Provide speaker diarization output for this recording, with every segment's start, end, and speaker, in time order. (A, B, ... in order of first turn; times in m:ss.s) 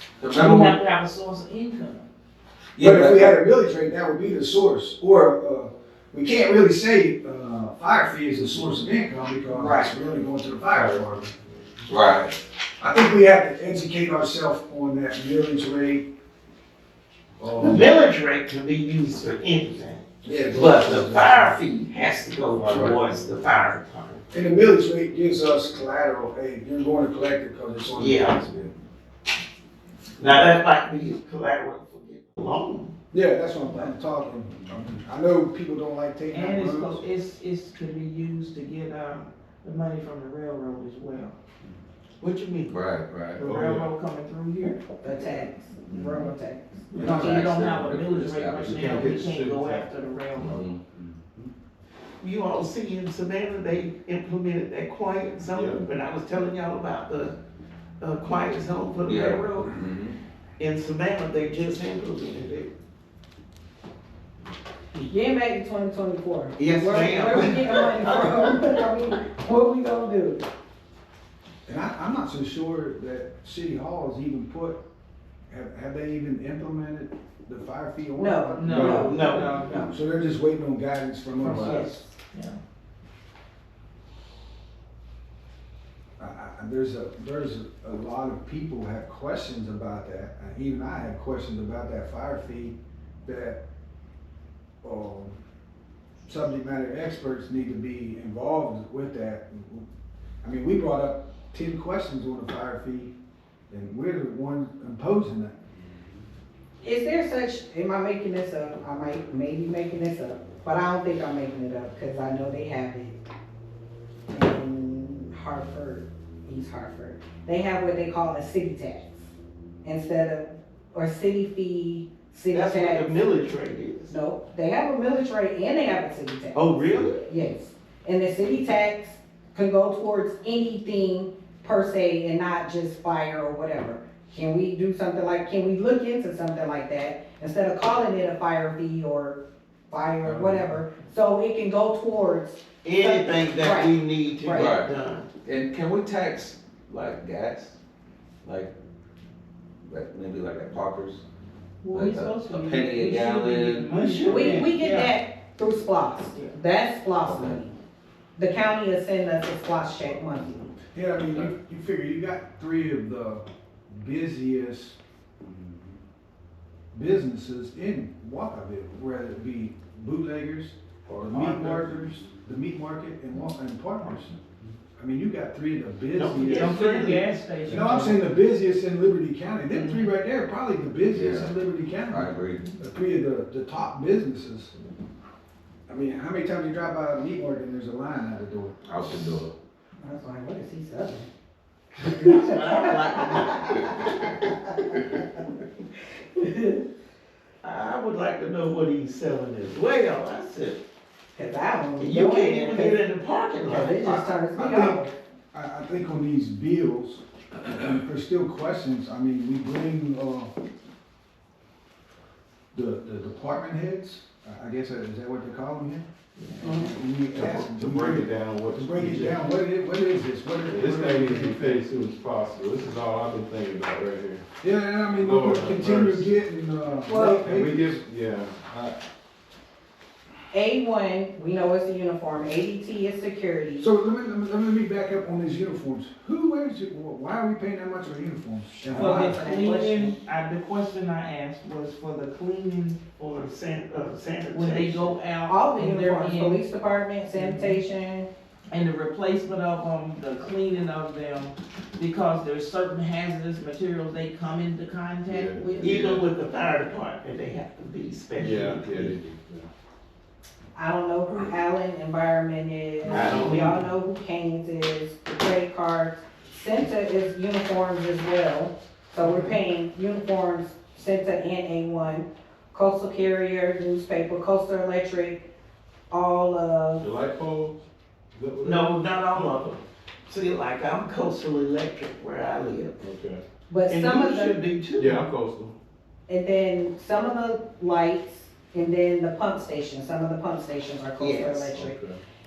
0:00.2-0:00.8 A
0:00.3-0:02.0 B
0:02.7-0:03.3 A
0:02.8-0:11.3 C
0:09.6-0:09.9 B
0:10.7-0:11.0 D
0:11.9-0:12.4 A
0:12.8-0:16.0 C
0:17.4-0:17.9 C
0:17.6-0:24.2 E
0:20.2-0:21.6 C
0:22.6-0:23.0 A
0:24.3-0:28.7 C
0:27.9-0:28.4 E
0:30.2-0:32.9 E
0:33.1-0:37.1 C
0:36.3-0:41.3 B
0:42.2-0:42.8 E
0:42.7-0:43.4 A
0:43.4-0:44.8 B
0:43.4-0:43.9 D
0:45.0-0:47.4 F
0:45.9-0:46.3 A
0:46.9-0:47.2 E
0:47.0-0:49.1 A
0:47.0-0:50.5 B
0:48.5-0:51.0 D
0:50.4-0:50.8 A
0:52.2-0:57.4 E
0:55.5-0:55.9 D
0:58.0-0:59.8 E
0:59.0-1:00.2 A
1:00.6-1:02.7 E
1:05.0-1:10.4 F
1:06.6-1:08.8 E
1:11.7-1:14.8 C
1:15.5-1:21.8 C
1:18.2-1:19.8 F
1:18.6-1:19.8 B
1:18.8-1:19.9 E
1:21.4-1:22.6 B
1:21.4-1:22.0 F
1:26.2-1:33.6 C
1:34.8-1:35.3 C
1:36.3-1:39.8 C
1:40.4-1:43.1 C
1:43.7-1:45.5 C
1:46.8-1:53.2 F
1:54.3-1:59.3 F
1:59.8-2:03.2 F
2:02.5-2:04.1 E
2:04.1-2:24.7 F
2:06.5-2:07.2 E
2:20.3-2:20.6 D
2:22.8-2:25.3 E
2:24.5-2:24.9 A
2:25.4-2:27.8 A
2:28.4-2:28.7 A
2:29.8-2:31.2 A
2:31.8-2:35.2 B
2:31.9-2:33.9 A
2:33.9-2:34.7 E
2:34.2-2:37.8 F
2:37.2-2:37.6 A
2:38.4-2:40.6 F
2:40.9-2:45.0 C
2:46.9-2:54.4 C
2:51.1-2:52.1 D
2:55.0-3:04.7 C
2:56.1-2:57.3 E
2:56.4-2:58.3 B
2:59.7-3:00.1 B
3:01.1-3:01.5 A
3:02.1-3:02.7 A
3:05.9-3:08.8 C
3:08.9-3:09.5 A
3:10.0-3:11.3 F
3:12.0-3:15.2 F
3:12.0-3:14.0 E
3:16.3-3:16.8 F
3:17.6-3:20.8 E
3:21.3-3:23.0 F
3:22.0-3:24.3 E
3:23.6-3:25.1 F
3:24.5-3:30.5 C
3:32.7-3:36.1 C
3:36.6-3:36.9 F
3:36.6-3:41.8 C
3:37.3-3:39.4 D
3:40.7-3:44.4 D
3:44.6-3:48.0 C
3:45.1-3:46.3 D
3:47.1-3:47.5 F
3:47.5-3:49.0 D
3:50.5-3:53.9 F
3:53.8-3:59.4 C
3:58.9-4:03.1 B
3:58.9-4:00.2 F
4:03.2-4:05.2 E
4:04.5-4:06.6 B
4:05.5-4:08.3 F
4:07.3-4:07.8 B
4:08.7-4:15.9 B
4:15.3-4:16.2 D
4:15.8-4:19.2 E
4:18.4-4:19.7 D
4:20.8-4:35.4 F
4:23.1-4:23.8 E
4:23.1-4:23.5 D
4:36.1-4:37.1 F
4:37.0-4:37.8 D
4:38.3-4:39.4 D
4:38.6-4:43.0 E
4:43.0-4:43.4 D
4:43.7-4:44.6 F
4:43.9-4:45.2 E
4:45.0-4:45.8 D
4:46.3-4:51.9 F
4:51.2-4:51.7 E
4:51.7-4:52.2 D